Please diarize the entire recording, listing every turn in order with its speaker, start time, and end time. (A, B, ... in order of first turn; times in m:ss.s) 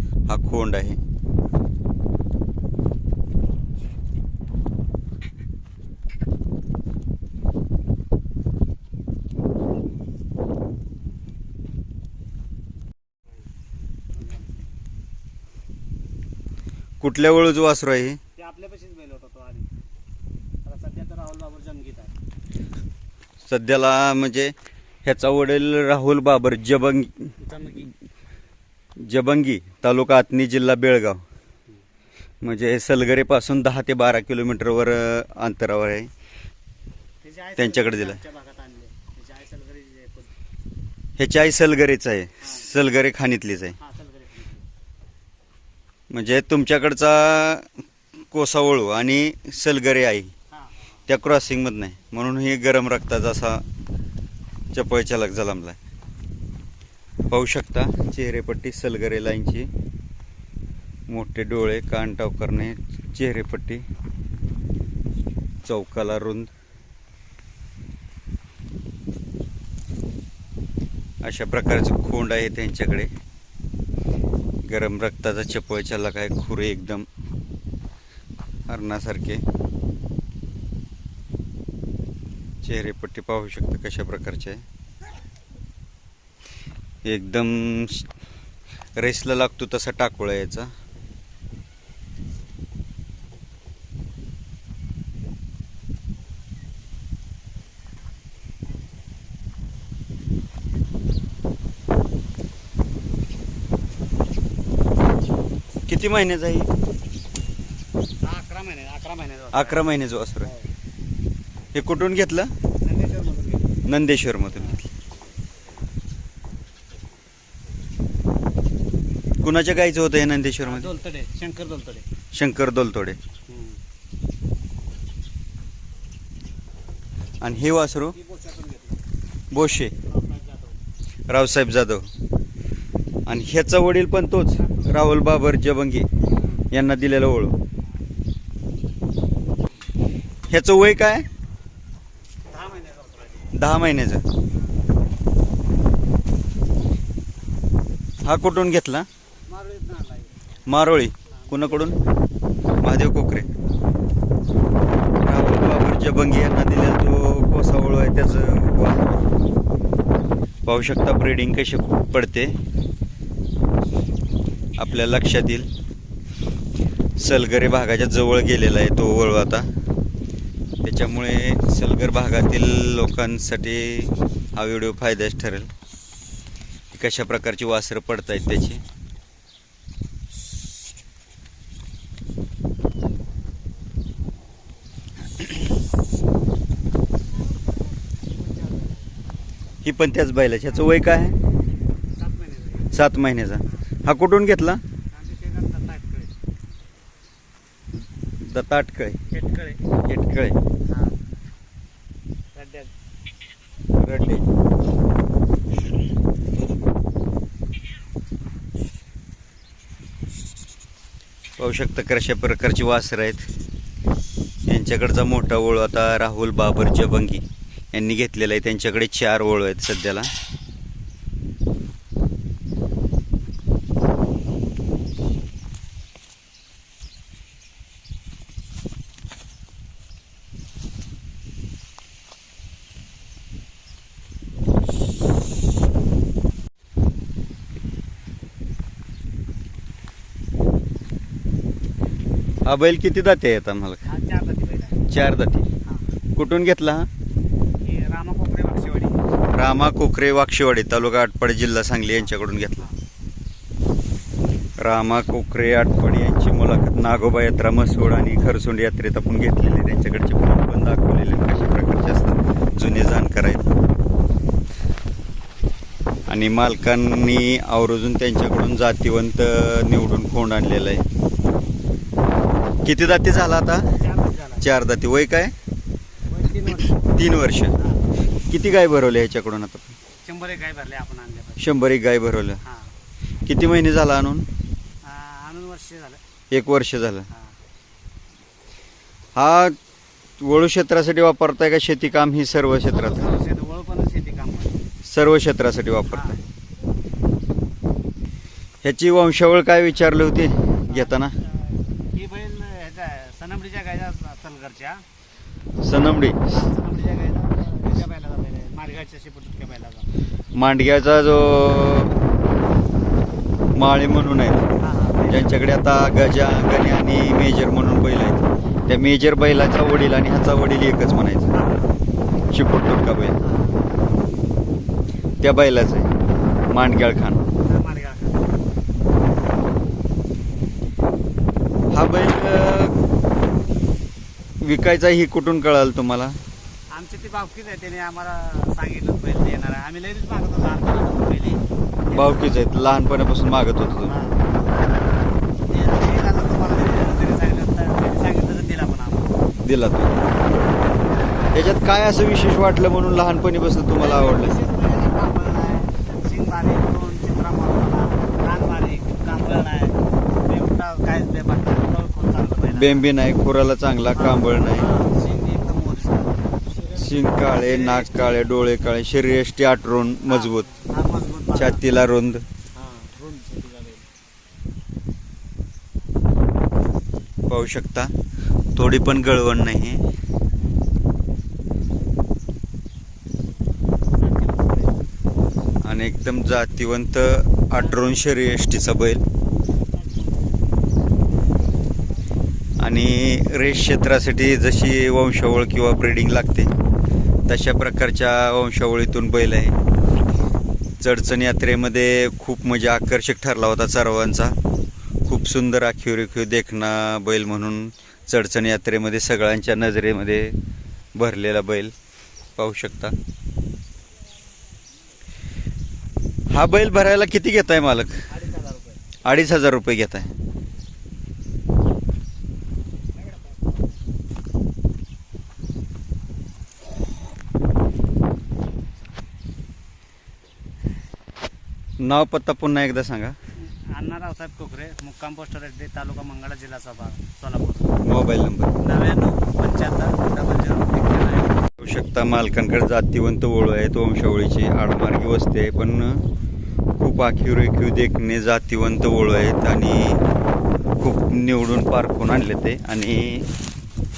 0:00.3-0:01.0 A
0:14.2-0:14.6 B
0:17.0-0:18.2 A
0:18.4-0:19.7 B
0:20.6-0:22.1 B
0:23.5-0:24.5 A
0:25.0-0:27.3 A
0:27.4-0:27.9 B
0:29.0-0:31.2 A
0:32.4-0:36.1 A
0:37.2-0:40.3 B
0:37.6-0:38.2 A
0:41.2-0:43.8 A
0:42.4-0:42.8 B
0:43.8-0:44.6 B
0:46.1-0:47.7 A
0:48.3-0:50.3 A
0:50.5-0:51.0 B
0:51.1-0:53.6 A
0:54.7-0:55.8 A
0:57.3-0:59.7 A
1:01.1-1:03.8 A
1:05.6-1:06.5 A
1:11.2-1:13.1 A
1:14.6-1:17.1 A
1:18.7-1:19.4 A
1:22.6-1:24.6 A
1:27.0-1:28.1 A
1:29.0-1:30.7 A
1:45.9-1:46.7 A
1:48.2-1:49.9 B
1:49.5-1:50.5 A
1:51.7-1:52.5 A
1:52.8-1:53.8 B
1:53.9-1:54.8 A
1:59.4-2:00.9 A
2:00.6-2:02.1 B
2:02.3-2:03.2 A
2:03.5-2:03.8 B
2:07.4-2:08.2 A
2:08.1-2:09.0 B
2:09.5-2:09.9 A
2:09.6-2:10.8 B
2:11.3-2:12.1 A
2:13.3-2:16.1 A
2:16.4-2:16.6 B
2:16.7-2:17.6 A
2:20.5-2:21.3 A
2:22.5-2:23.5 B
2:23.5-2:24.2 A
2:28.2-2:29.1 A
2:29.5-2:30.4 B
2:30.7-2:32.0 A
2:31.3-2:32.0 B
2:32.8-2:33.5 A
2:35.2-2:39.2 A
2:40.7-2:42.5 A
2:44.8-2:45.7 A
2:47.2-2:49.7 A
2:50.8-2:55.7 A
2:56.9-2:58.8 A
3:08.3-3:09.1 B
3:09.8-3:11.4 A
3:12.2-3:13.0 B
3:12.9-3:14.8 A
3:15.1-3:16.3 B
3:18.4-3:19.2 A
3:19.3-3:19.8 B
3:20.0-3:20.6 A
3:20.9-3:21.2 B
3:22.6-3:22.9 B
3:24.0-3:24.4 A
3:31.6-3:33.5 A
3:34.7-3:40.3 A
4:02.6-4:04.0 A
4:04.1-4:05.1 B
4:05.1-4:05.7 A
4:06.4-4:07.1 A
4:07.8-4:09.2 B
4:09.6-4:12.8 A
4:14.8-4:23.7 A
4:26.3-4:31.0 A
4:32.8-4:33.9 A
4:33.9-4:34.7 B
4:34.6-4:35.5 A
4:36.3-4:37.1 B
4:37.0-4:37.7 A
4:37.8-4:38.1 B
4:38.5-4:39.9 A
4:40.3-4:41.7 B
4:41.6-4:42.6 A
4:42.6-4:42.9 B
4:43.5-4:44.5 A
4:45.0-4:46.2 B
4:46.5-4:47.3 A
4:47.3-4:47.6 B
4:49.4-4:49.8 A
4:50.4-4:53.3 A
4:52.8-4:54.8 B
4:55.0-4:56.4 A
4:56.1-4:56.4 B
4:58.8-5:01.4 A
5:00.9-5:05.0 B
5:05.8-5:06.6 A
5:06.5-5:10.1 B
5:10.6-5:12.2 A
5:13.8-5:14.7 A
5:14.8-5:15.6 B
5:15.3-5:21.5 A
5:21.5-5:22.0 B
5:22.5-5:23.4 A
5:23.4-5:23.8 B
5:25.4-5:26.1 A
5:26.7-5:27.4 A
5:27.6-5:28.6 B
5:31.9-5:32.9 A
5:34.6-5:36.4 A
5:36.9-5:42.6 B
5:42.1-5:44.2 A
5:43.8-5:49.4 B
5:49.6-5:50.2 A
5:51.5-5:54.6 A
5:54.0-6:03.1 B
6:02.7-6:04.9 A
6:04.2-6:08.5 B
6:06.9-6:10.7 A
6:10.3-6:11.8 B
6:11.6-6:12.4 A
6:12.8-6:14.0 B
6:17.5-6:18.1 A
6:18.8-6:20.0 A
6:24.2-6:25.1 B
6:25.8-6:29.2 A
6:27.8-6:28.2 B
6:29.7-6:30.6 B
6:32.8-6:36.7 A
6:37.5-6:39.8 A
6:41.0-6:44.6 A
6:45.3-6:50.6 A
6:51.2-6:51.9 A
6:52.6-6:53.1 A
6:56.5-6:58.2 A
6:58.3-6:59.0 B
6:59.2-7:00.3 A
7:03.2-7:03.7 B
7:12.0-7:13.4 A
7:13.9-7:18.0 B
7:18.0-7:18.7 A
7:18.8-7:21.6 B
7:21.8-7:26.2 A
7:27.0-7:30.2 A
7:31.0-7:33.5 A